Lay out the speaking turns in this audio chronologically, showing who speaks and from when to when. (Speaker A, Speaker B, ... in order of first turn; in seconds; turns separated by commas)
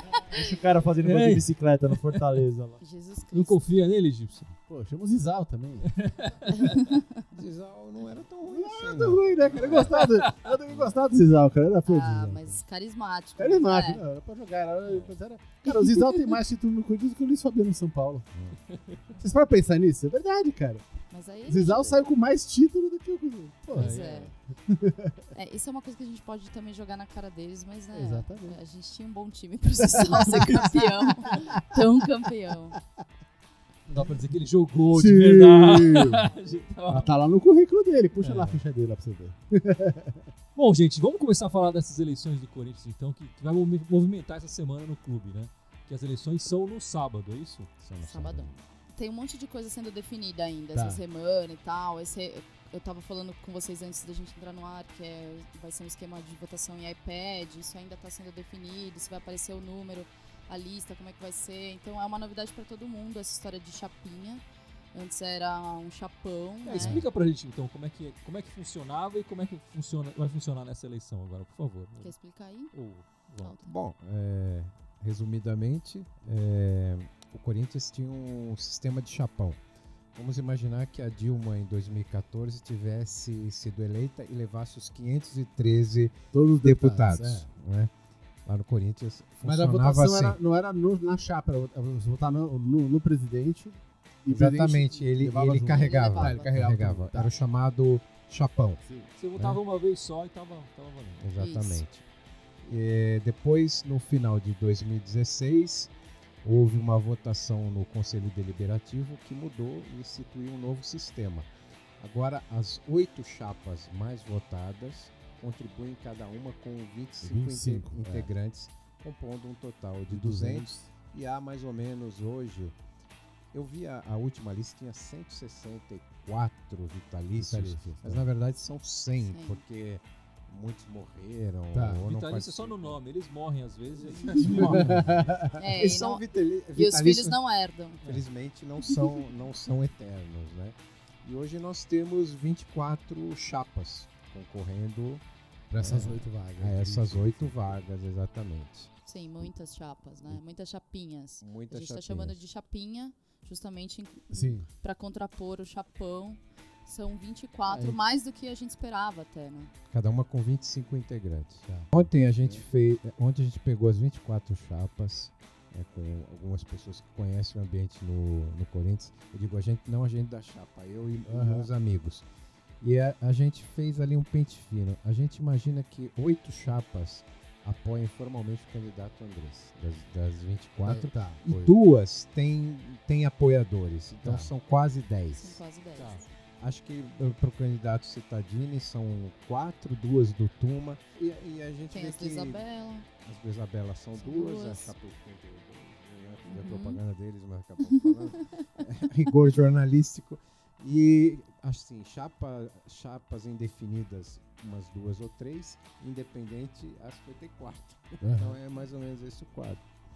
Speaker A: 0.2-2.8, Speaker B: 1.0-2.2, Speaker C: 2.8-3.6, Speaker B: 3.3-4.5, Speaker D: 4.7-5.9, Speaker B: 5.9-6.7, Speaker C: 6.6-7.0, Speaker E: 7.3-10.1, Speaker D: 8.5-12.6, Speaker B: 9.6-10.4, Speaker C: 11.9-14.0, Speaker D: 13.4-18.3, Speaker B: 14.9-15.2, Speaker C: 15.7-16.3, Speaker B: 18.7-19.0, Speaker D: 19.2-20.9, Speaker C: 21.1-22.0, Speaker D: 21.5-24.1, Speaker B: 23.7-24.3, Speaker C: 23.8-24.3, Speaker D: 24.7-25.2, Speaker C: 25.3-32.8, Speaker D: 27.9-28.6, Speaker D: 29.9-30.9, Speaker D: 31.6-31.8, Speaker B: 33.9-37.1, Speaker D: 34.9-36.3, Speaker D: 36.9-40.2, Speaker B: 38.2-38.6, Speaker B: 40.5-47.7, Speaker D: 47.9-48.5, Speaker E: 47.9-48.5, Speaker C: 48.0-64.4, Speaker D: 50.7-51.0, Speaker C: 64.9-67.0, Speaker B: 66.7-72.2, Speaker E: 66.8-67.1, Speaker C: 72.0-72.7, Speaker B: 72.7-73.6, Speaker C: 73.4-73.7, Speaker E: 73.6-79.6, Speaker E: 80.2-87.9, Speaker D: 86.3-87.5, Speaker E: 88.5-90.4, Speaker D: 89.4-97.3, Speaker E: 94.3-98.8, Speaker C: 95.7-96.5, Speaker D: 98.8-99.1, Speaker B: 99.2-101.2, Speaker E: 101.2-102.0, Speaker C: 101.4-101.8, Speaker E: 102.6-105.9, Speaker E: 106.4-122.8, Speaker D: 117.2-118.3, Speaker D: 120.1-120.9, Speaker E: 123.5-133.0, Speaker D: 127.3-128.3, Speaker C: 129.2-129.6, Speaker D: 131.7-132.0, Speaker B: 132.0-135.3, Speaker E: 134.2-137.4, Speaker D: 134.3-135.6, Speaker C: 135.6-136.2, Speaker C: 136.7-138.0, Speaker E: 138.1-149.5, Speaker D: 145.7-147.9, Speaker C: 149.1-159.7, Speaker E: 151.4-152.4, Speaker D: 154.3-154.7, Speaker D: 157.7-158.0, Speaker E: 159.9-172.3, Speaker D: 161.7-162.6, Speaker D: 171.3-171.7, Speaker E: 172.8-185.6, Speaker D: 180.8-181.8, Speaker D: 184.2-184.5, Speaker C: 185.3-186.3, Speaker B: 186.0-186.2, Speaker E: 186.6-192.6, Speaker C: 191.9-193.1, Speaker E: 193.2-209.8, Speaker C: 194.2-194.9, Speaker C: 196.4-197.0, Speaker D: 208.2-208.6